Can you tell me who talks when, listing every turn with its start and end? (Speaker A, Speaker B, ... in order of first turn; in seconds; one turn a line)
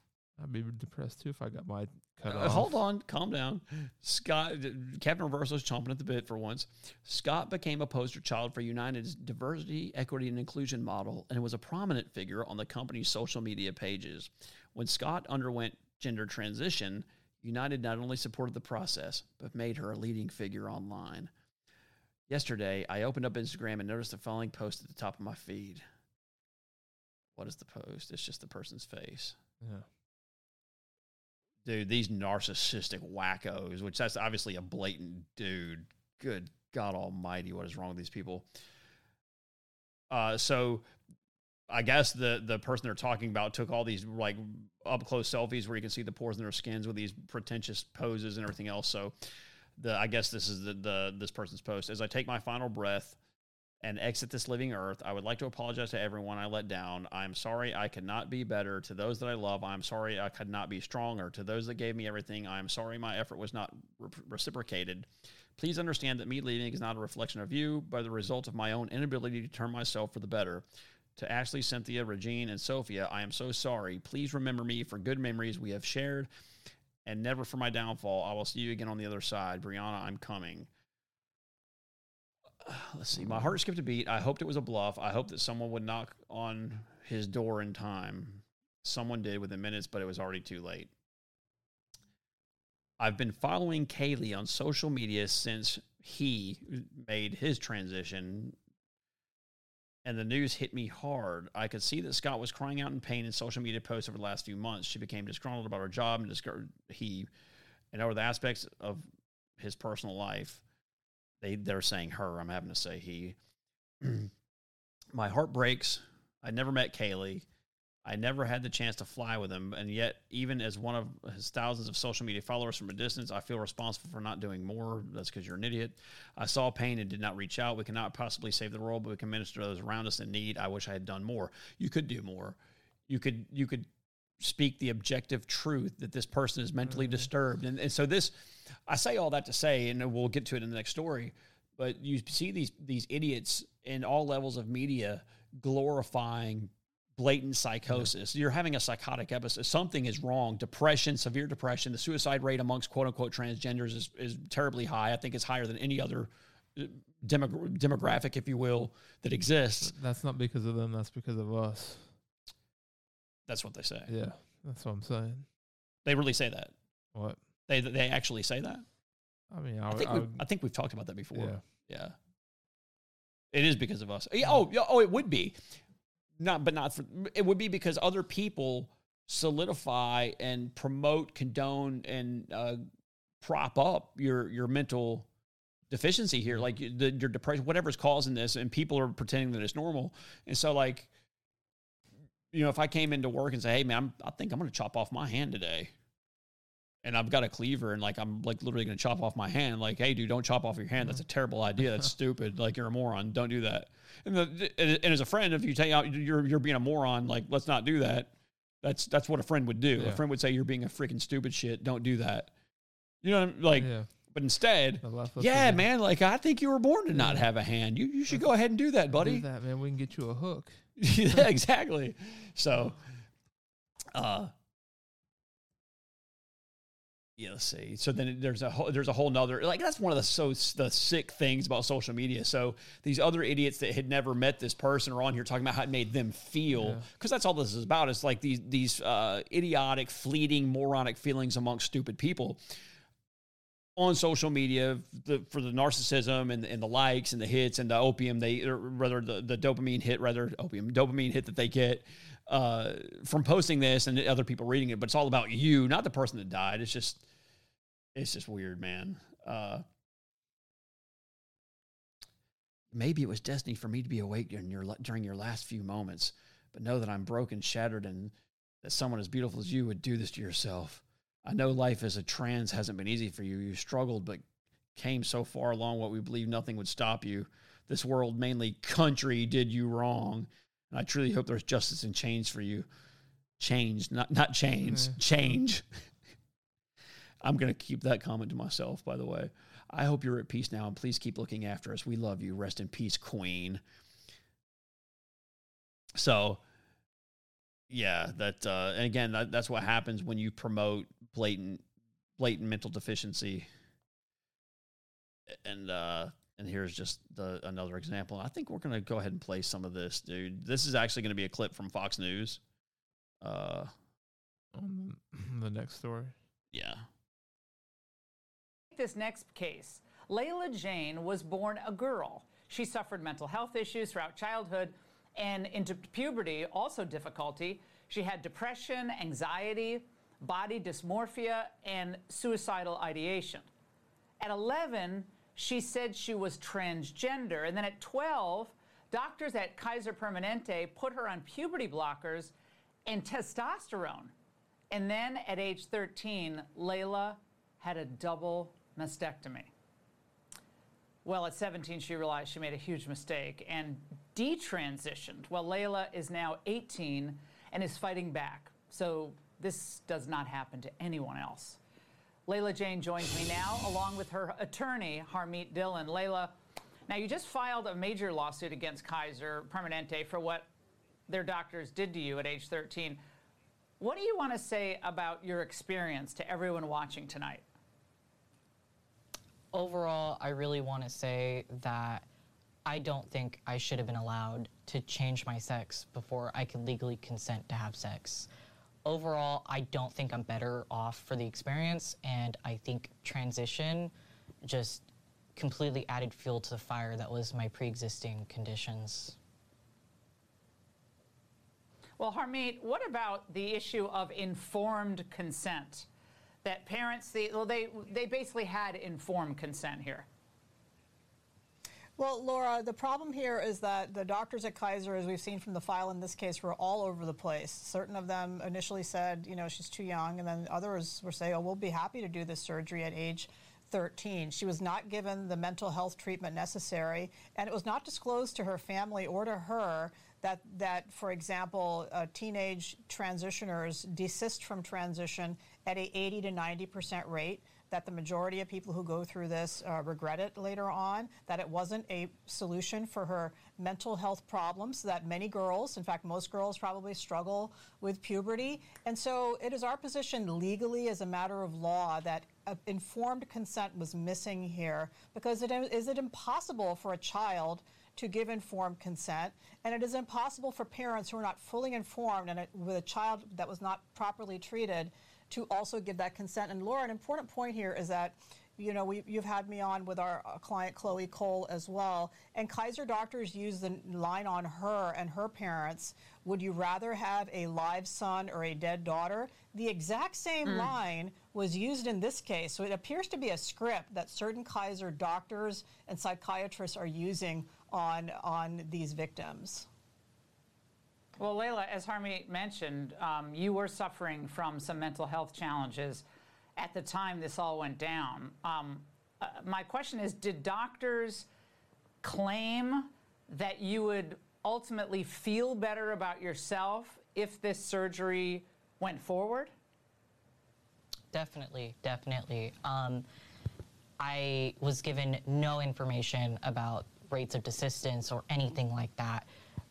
Speaker A: 0.4-2.8
Speaker B: 2.2-21.3
Speaker B: 22.3-25.8
Speaker B: 27.4-29.4
Speaker A: 29.6-29.9
Speaker B: 31.6-38.5
Speaker B: 40.1-40.9
Speaker B: 41.7-49.1
Speaker B: 49.8-53.2
Speaker B: 53.8-70.6
Speaker B: 71.2-76.3
Speaker B: 77.0-80.7
Speaker B: 82.6-90.9
Speaker B: 93.0-98.6
Speaker B: 100.0-107.3
Speaker B: 107.9-109.1
Speaker B: 109.6-110.6
Speaker B: 111.4-113.3
Speaker B: 114.0-114.3
Speaker B: 115.1-117.5
Speaker B: 118.0-132.6
Speaker B: 133.1-133.9
Speaker B: 134.4-159.9
Speaker A: 136.9-137.3
Speaker A: 159.8-162.1
Speaker B: 163.5-164.1
Speaker A: 164.1-165.4
Speaker B: 166.1-166.7
Speaker A: 167.1-167.4
Speaker B: 167.7-168.8
Speaker A: 169.5-170.4
Speaker B: 169.9-172.1
Speaker A: 171.3-171.6
Speaker B: 173.5-175.6
Speaker B: 176.4-182.8
Speaker B: 183.4-185.3
Speaker B: 185.9-191.1
Speaker B: 192.5-195.9
Speaker B: 197.0-208.3
Speaker B: 208.8-212.5
Speaker B: 213.2-219.4
Speaker A: 213.7-214.1
Speaker A: 215.0-215.8
Speaker A: 217.1-217.5
Speaker A: 219.1-220.9
Speaker B: 221.0-223.0
Speaker B: 224.1-224.5
Speaker B: 227.4-242.6
Speaker A: 236.7-237.0
Speaker B: 244.0-257.2
Speaker B: 258.1-259.8
Speaker B: 262.9-274.4
Speaker B: 274.9-282.9
Speaker B: 283.6-286.0
Speaker B: 287.4-293.8
Speaker B: 296.1-296.6
Speaker B: 297.9-301.8
Speaker B: 302.4-303.7
Speaker B: 305.5-312.6
Speaker B: 313.4-313.9
Speaker A: 314.7-316.3
Speaker B: 316.7-317.1
Speaker C: 318.9-333.7
Speaker C: 334.4-342.5
Speaker C: 343.0-344.3
Speaker C: 344.9-349.7
Speaker C: 351.2-361.8
Speaker C: 362.5-366.5
Speaker C: 367.1-370.7
Speaker C: 371.3-373.2
Speaker C: 374.0-377.6
Speaker D: 379.7-382.3
Speaker D: 382.9-388.5
Speaker D: 389.0-399.4
Speaker C: 402.2-406.1
Speaker C: 406.6-410.3
Speaker E: 412.2-489.9
Speaker C: 491.4-496.2
Speaker C: 496.8-501.5
Speaker C: 502.2-509.7
Speaker D: 511.3-513.2
Speaker D: 514.2-519.5